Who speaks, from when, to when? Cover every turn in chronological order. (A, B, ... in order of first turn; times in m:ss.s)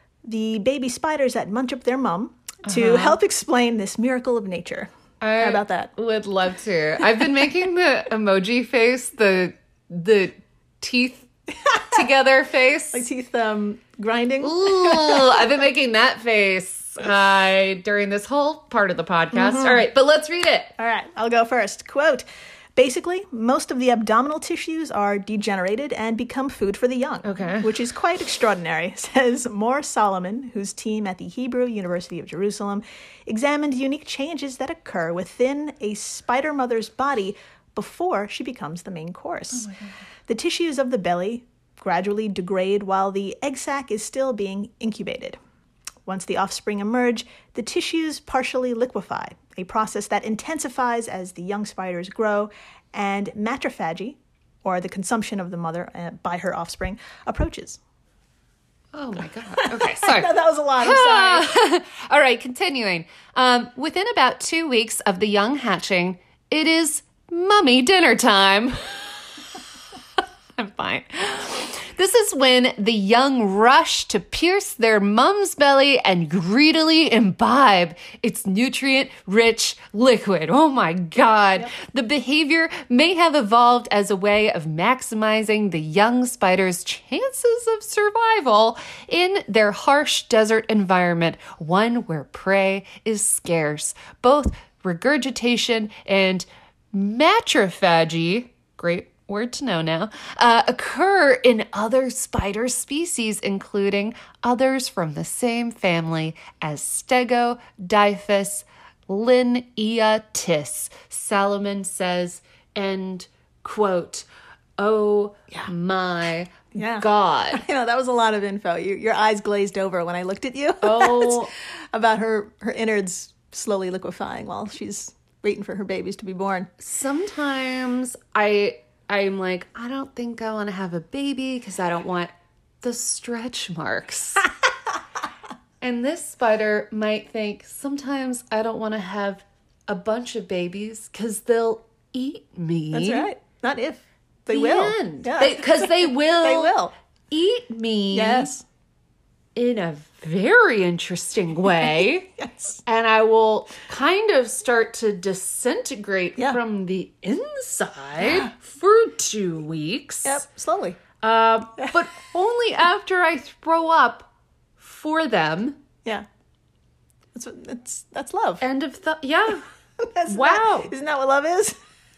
0:00.2-0:05.9 A
0:02.7-0:03.2 B
0:05.2-0:13.0 B
0:12.9-0:15.4 A
0:14.4-0:20.7 B
0:19.3-0:19.9 A
0:20.8-0:22.2 A
0:22.8-0:39.7 A
0:27.2-0:27.8 B
0:39.5-0:40.0 B
0:40.3-0:45.4 A
0:46.1-0:57.8 A
0:58.9-1:09.1 B
0:59.6-1:01.5 A
1:10.6-1:54.3 B
1:54.8-1:57.6 B
1:56.7-2:06.7 A
2:00.8-2:01.5 B
2:06.8-2:14.5 B
2:15.8-2:23.3 B
2:22.9-2:26.9 A
2:24.5-2:26.8 B
2:27.3-2:28.5 B
2:28.1-2:28.6 A
2:29.6-2:40.4 B
2:32.4-2:32.8 A
2:38.2-2:38.5 A
2:40.2-2:41.0 A
2:41.2-2:45.8 B
2:47.3-2:48.6 A
2:48.6-2:49.6 B
2:50.0-2:51.8 A
2:50.3-2:50.9 B